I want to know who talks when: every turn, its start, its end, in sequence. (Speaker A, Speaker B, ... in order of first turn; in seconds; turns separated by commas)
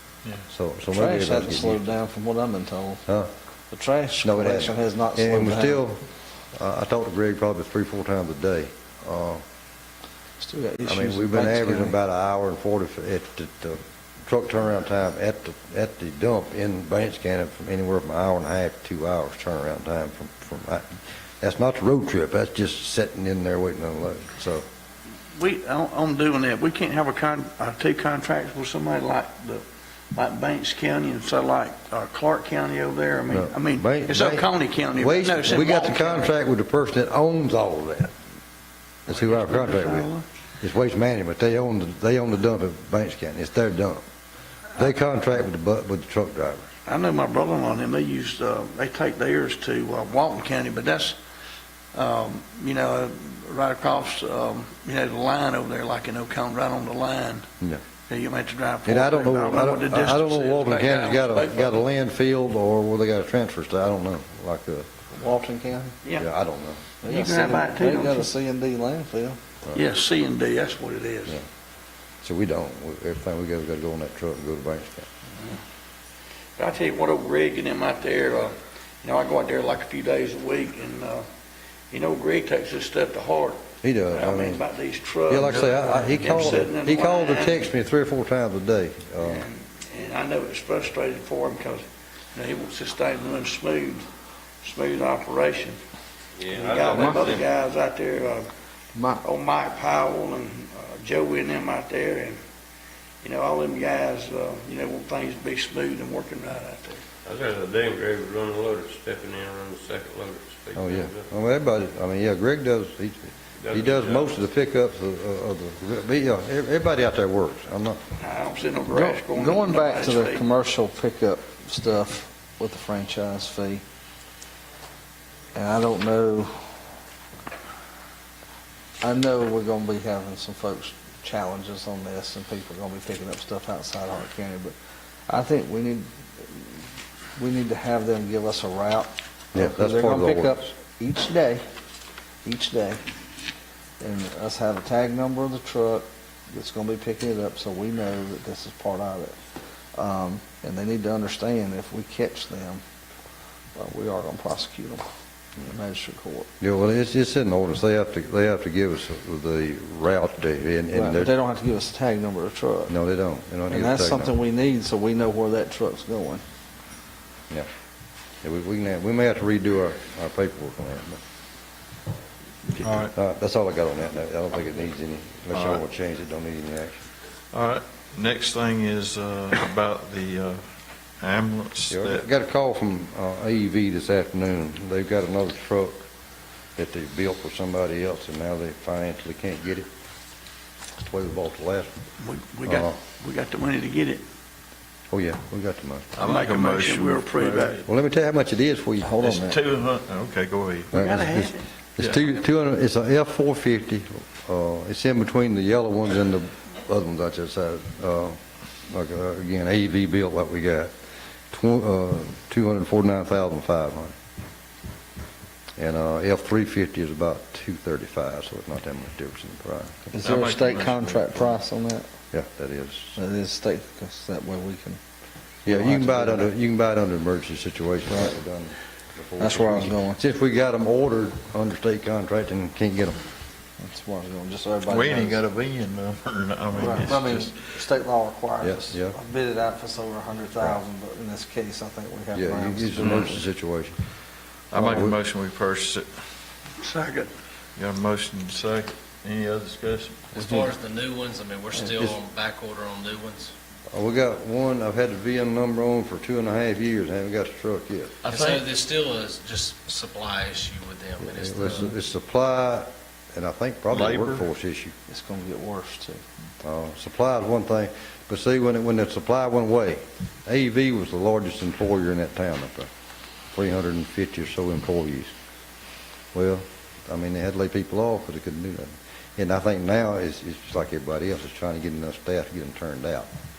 Speaker A: 0.5-1.9, Speaker B: 0.9-3.0, Speaker B: 3.7-5.8, Speaker A: 4.2-9.4, Speaker B: 10.4-12.0, Speaker A: 10.9-20.9, Speaker A: 21.4-24.7, Speaker C: 25.4-36.3, Speaker A: 33.3-38.1, Speaker A: 39.1-40.1, Speaker C: 39.1-40.2, Speaker A: 40.6-44.0, Speaker A: 44.8-46.7, Speaker C: 46.9-51.2, Speaker C: 51.9-57.5, Speaker C: 58.1-61.8, Speaker A: 58.9-64.9, Speaker B: 65.1-66.0, Speaker A: 66.2-66.8, Speaker B: 67.0-69.4, Speaker C: 67.1-68.3, Speaker C: 69.7-71.4, Speaker A: 72.2-75.1, Speaker C: 76.6-81.2, Speaker C: 81.9-87.7, Speaker A: 83.8-84.6, Speaker A: 85.3-89.5, Speaker C: 89.2-94.0, Speaker C: 94.6-95.8, Speaker D: 96.4-97.4, Speaker C: 96.5-98.5, Speaker B: 96.9-97.4, Speaker B: 98.9-99.2, Speaker C: 99.2-102.4, Speaker C: 103.2-107.1, Speaker D: 107.2-111.3, Speaker A: 110.8-118.0, Speaker D: 113.6-114.4, Speaker C: 118.2-120.5, Speaker B: 118.9-123.8, Speaker B: 125.5-126.5, Speaker B: 129.0-134.7, Speaker B: 135.3-136.8, Speaker B: 137.4-141.6, Speaker A: 139.6-140.7, Speaker B: 142.4-143.0, Speaker B: 144.0-149.4, Speaker B: 149.9-152.8, Speaker B: 153.8-155.1, Speaker B: 155.6-156.5, Speaker A: 156.6-161.3, Speaker B: 160.9-162.9, Speaker A: 162.9-164.3, Speaker B: 163.7-166.4, Speaker A: 168.4-171.2, Speaker E: 172.8-173.1, Speaker A: 173.1-177.0, Speaker E: 175.5-175.8, Speaker E: 177.5-180.6, Speaker E: 181.2-182.2, Speaker A: 181.9-186.0, Speaker A: 186.8-189.9, Speaker A: 191.0-192.0, Speaker C: 192.2-194.2, Speaker A: 192.7-193.0, Speaker A: 195.1-196.1, Speaker E: 196.2-197.8, Speaker C: 196.2-197.8, Speaker A: 197.9-199.1, Speaker B: 199.1-199.6, Speaker E: 199.2-201.0, Speaker A: 200.9-208.4, Speaker C: 200.9-201.6, Speaker A: 208.9-210.9, Speaker A: 211.5-214.1, Speaker A: 215.8-220.1, Speaker B: 220.1-222.1, Speaker E: 220.2-221.6, Speaker A: 222.3-223.2, Speaker B: 223.2-225.0, Speaker A: 225.7-233.2, Speaker B: 225.7-226.5, Speaker B: 229.4-230.2, Speaker B: 233.8-235.4, Speaker E: 234.9-237.5, Speaker B: 236.8-243.4, Speaker A: 238.6-239.2, Speaker A: 242.3-244.0, Speaker E: 244.7-246.1, Speaker A: 244.7-245.2, Speaker C: 246.8-247.3, Speaker E: 247.8-250.4, Speaker F: 250.3-253.5, Speaker A: 253.9-258.2, Speaker E: 258.2-258.7, Speaker F: 258.3-261.9, Speaker A: 261.2-264.9, Speaker E: 263.9-264.4, Speaker B: 265.1-266.2, Speaker A: 266.6-272.9, Speaker A: 273.5-275.3, Speaker A: 276.3-283.3